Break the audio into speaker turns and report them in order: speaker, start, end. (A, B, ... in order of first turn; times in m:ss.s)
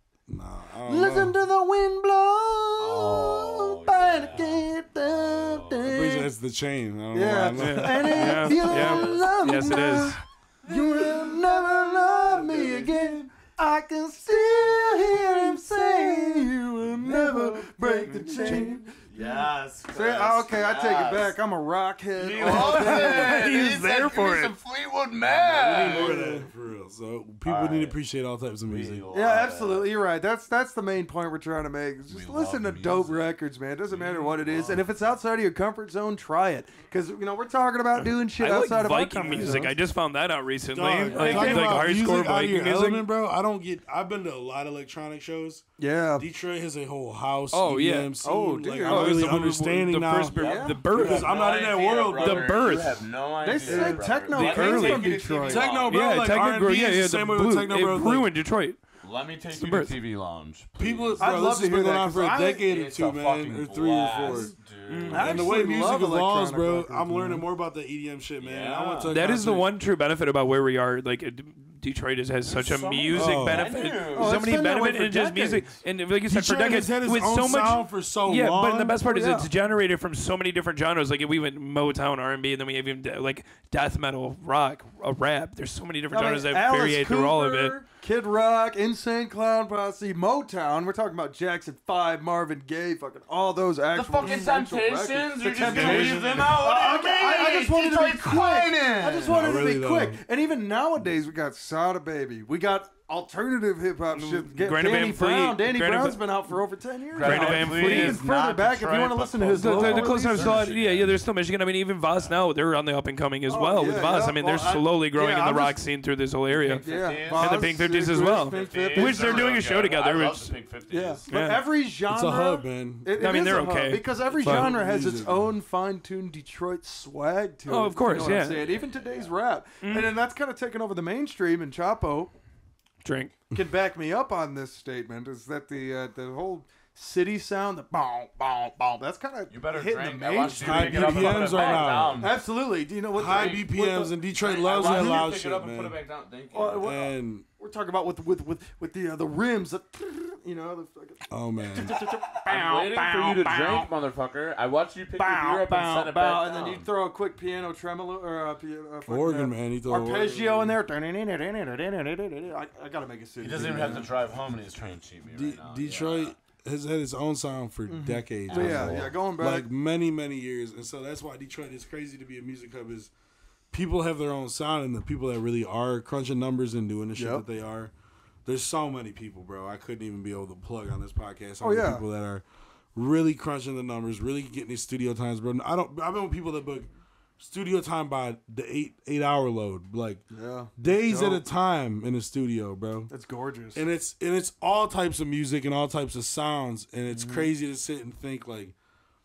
0:00.3-0:01.4 A
0:00.9-0:06.3 B
0:02.8-0:06.0 C
0:05.8-0:08.6 A
0:07.1-0:23.6 B
0:07.6-0:10.2 D
0:08.3-0:09.3 C
0:12.3-0:13.2 C
0:12.4-0:12.9 A
0:14.6-0:15.1 C
0:17.0-0:18.6 A
0:18.0-0:18.6 D
0:18.2-0:21.4 C
0:22.1-0:26.3 C
0:22.4-0:24.5 D
0:25.3-0:26.5 B
0:25.4-0:29.0 A
0:27.4-0:28.0 C
0:28.6-0:30.0 C
0:29.1-0:39.7 B
0:32.1-0:33.3 C
0:33.9-0:34.8 C
0:38.0-0:43.1 D
0:39.3-0:39.6 A
0:40.7-0:45.6 A
0:41.1-0:41.7 B
0:41.2-0:41.5 C
0:45.8-0:46.3 B
0:46.2-0:52.6 A
0:47.5-0:48.1 D
0:48.2-0:49.2 B
0:48.8-0:51.4 D
0:50.4-0:56.0 C
0:50.4-0:50.8 B
0:52.1-0:53.0 D
0:53.4-0:55.7 B
0:53.6-0:54.1 A
0:54.3-0:55.1 D
0:55.4-0:58.3 A
0:55.9-0:58.8 D
0:59.0-1:01.3 C
0:59.5-1:00.0 D
1:00.8-1:04.5 A
1:01.2-1:02.6 B
1:02.6-1:05.5 C
1:04.9-1:05.4 D
1:05.1-1:07.4 B
1:05.1-1:09.7 A
1:08.4-1:09.1 C
1:09.1-1:27.8 D
1:12.4-1:14.4 C
1:13.1-1:13.7 A
1:14.1-1:15.8 B
1:16.3-1:19.0 A
1:19.0-1:19.5 B
1:26.1-1:50.7 B
1:33.9-1:39.4 C
1:35.6-1:36.6 A
1:39.2-1:40.2 A
1:44.1-1:46.2 D
1:47.1-1:51.2 C
1:47.2-1:48.2 D
1:49.5-2:00.5 D
1:52.1-1:52.4 C
1:53.5-1:55.8 B
1:56.5-1:57.7 C
1:56.8-1:59.6 B
1:58.4-2:01.2 C
2:00.9-2:12.3 B
2:01.3-2:01.6 D
2:02.1-2:03.5 A
2:03.2-2:04.7 D
2:04.3-2:05.5 A
2:07.7-2:08.6 D
2:08.4-2:09.3 C
2:09.8-2:10.1 D
2:13.0-2:13.3 D
2:13.5-2:25.3 B
2:19.5-2:22.4 C
2:20.5-2:22.2 A
2:23.1-2:26.0 A
2:23.2-2:23.7 C
2:24.3-2:26.9 C
2:26.5-2:33.9 B
2:26.8-2:27.4 A
2:31.3-2:32.0 A
2:31.8-2:36.9 C
2:35.1-2:44.1 B
2:39.1-2:40.8 A
2:43.4-2:46.4 C
2:43.6-2:44.1 A
2:45.3-2:53.1 A
2:47.9-2:49.7 B
2:48.5-2:49.1 C
2:53.7-2:57.9 A
2:57.1-2:57.4 B
2:58.4-3:02.4 A
3:01.6-3:02.0 B
3:02.9-3:10.2 A
3:10.3-3:11.4 B
3:10.8-3:13.1 A
3:13.1-3:13.8 B
3:13.7-3:18.7 A
3:17.1-3:17.5 B